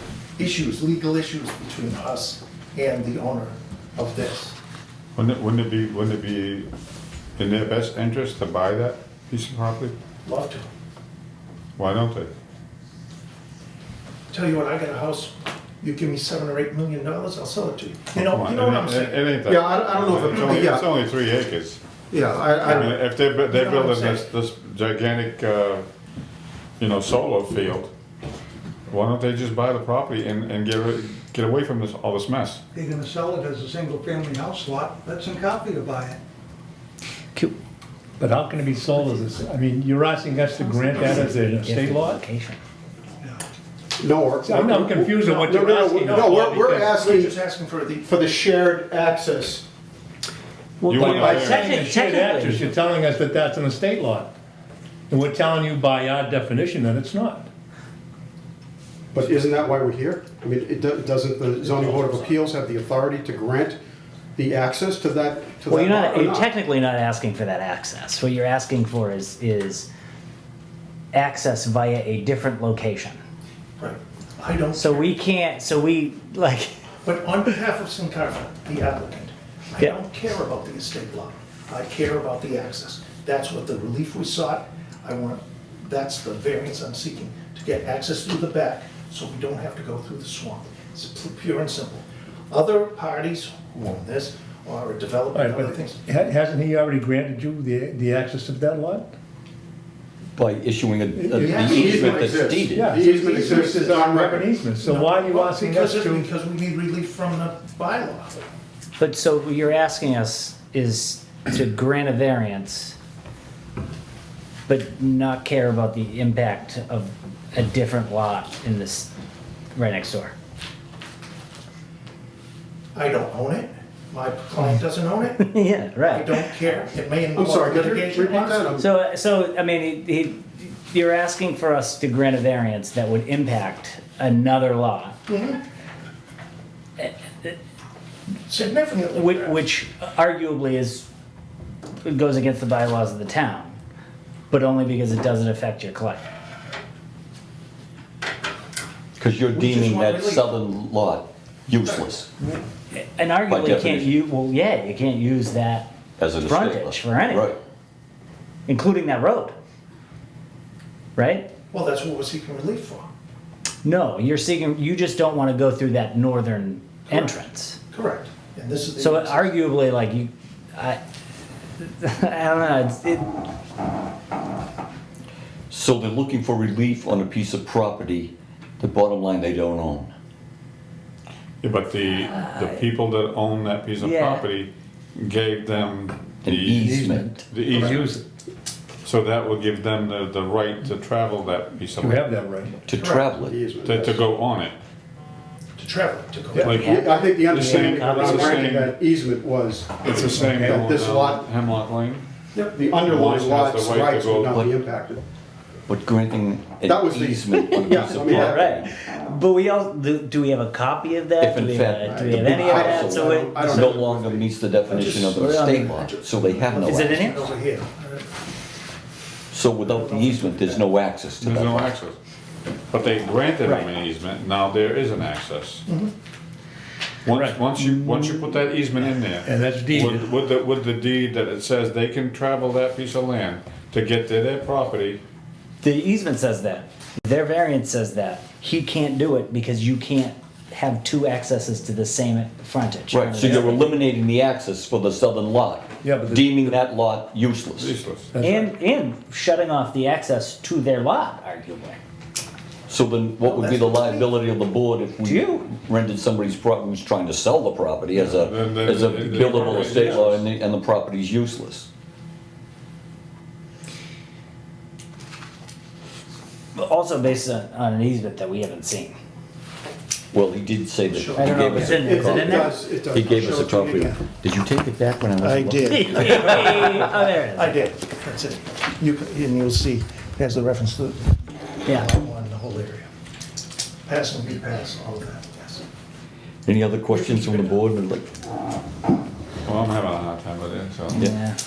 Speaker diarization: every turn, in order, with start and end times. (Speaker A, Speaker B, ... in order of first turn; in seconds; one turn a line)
Speaker A: 0.4-4.5
Speaker B: 5.2-6.7
Speaker B: 7.4-9.9
Speaker A: 10.2-10.7
Speaker B: 11.8-12.3
Speaker A: 14.3-19.2
Speaker B: 18.1-21.8
Speaker C: 19.5-20.8
Speaker C: 22.1-22.9
Speaker A: 22.6-23.0
Speaker B: 22.8-25.9
Speaker A: 23.5-24.2
Speaker B: 26.8-27.9
Speaker B: 28.9-32.6
Speaker D: 32.7-36.2
Speaker A: 33.2-36.1
Speaker E: 38.2-42.2
Speaker F: 40.9-42.6
Speaker C: 44.0-47.3
Speaker E: 44.4-47.0
Speaker A: 46.0-48.1
Speaker C: 48.0-49.6
Speaker F: 50.8-52.7
Speaker B: 50.9-51.5
Speaker E: 51.1-54.3
Speaker E: 55.1-57.5
Speaker C: 59.1-63.8
Speaker C: 64.3-66.5
Speaker F: 65.7-69.9
Speaker F: 71.1-73.2
Speaker A: 73.8-75.1
Speaker F: 74.7-76.8
Speaker A: 77.0-96.0
Speaker E: 95.3-99.1
Speaker G: 100.3-102.9
Speaker E: 101.2-106.3
Speaker A: 101.3-101.9
Speaker C: 101.6-104.5
Speaker A: 104.8-108.4
Speaker F: 109.0-113.0
Speaker F: 114.7-119.1
Speaker F: 119.7-120.3
Speaker A: 122.9-125.5
Speaker F: 125.4-126.3
Speaker A: 126.0-128.7
Speaker C: 127.3-128.8
Speaker F: 128.8-135.2
Speaker A: 135.3-135.6
Speaker F: 137.0-137.5
Speaker A: 138.5-139.6
Speaker F: 139.1-141.1
Speaker F: 142.0-143.8
Speaker F: 144.5-146.2
Speaker G: 149.2-152.3
Speaker A: 149.5-150.6
Speaker F: 152.5-157.5
Speaker G: 153.5-154.1
Speaker G: 156.2-157.6
Speaker F: 158.7-159.5
Speaker F: 161.2-161.5
Speaker A: 161.7-163.1
Speaker F: 163.8-167.8
Speaker A: 167.1-167.4
Speaker A: 167.9-169.5
Speaker F: 169.0-171.0
Speaker F: 171.8-173.3
Speaker G: 175.7-180.1
Speaker B: 181.6-186.9
Speaker F: 182.2-182.7
Speaker F: 184.0-184.4
Speaker G: 186.4-187.4
Speaker E: 186.8-188.2
Speaker B: 187.5-188.2
Speaker B: 189.0-192.2
Speaker E: 192.0-192.8
Speaker G: 192.8-193.6
Speaker A: 192.9-193.3
Speaker C: 193.4-194.2
Speaker B: 193.8-194.8
Speaker A: 195.8-196.7
Speaker B: 196.6-196.9
Speaker C: 196.6-201.4
Speaker F: 196.7-198.7
Speaker B: 197.5-198.9
Speaker B: 200.0-202.2
Speaker C: 202.5-205.2
Speaker B: 202.9-204.6
Speaker G: 205.9-208.9
Speaker C: 206.8-208.7
Speaker F: 208.2-213.9
Speaker G: 211.4-217.1
Speaker C: 212.1-214.5
Speaker A: 214.9-218.3
Speaker F: 215.3-215.9
Speaker F: 216.8-217.5
Speaker G: 219.5-221.9
Speaker A: 219.8-220.9
Speaker B: 221.4-222.2
Speaker B: 222.9-225.8
Speaker A: 225.9-226.1
Speaker B: 227.2-235.2
Speaker E: 227.3-228.5
Speaker E: 229.4-230.2
Speaker F: 235.8-243.9
Speaker G: 243.1-247.9
Speaker E: 243.4-243.8
Speaker E: 246.0-246.8
Speaker B: 247.8-248.3
Speaker E: 248.3-248.7
Speaker F: 248.4-252.0
Speaker G: 252.9-261.9
Speaker A: 253.7-254.2
Speaker F: 255.2-255.7
Speaker B: 258.1-260.5
Speaker F: 259.4-260.2
Speaker F: 266.7-269.1
Speaker G: 270.3-276.6
Speaker A: 271.1-272.8
Speaker F: 271.3-272.8
Speaker C: 271.8-274.1
Speaker A: 275.4-281.3
Speaker F: 275.9-277.8
Speaker F: 281.9-282.1
Speaker A: 281.9-283.1
Speaker A: 284.1-285.8
Speaker G: 286.6-288.3
Speaker A: 287.4-287.6
Speaker B: 289.6-291.2
Speaker F: 291.1-291.6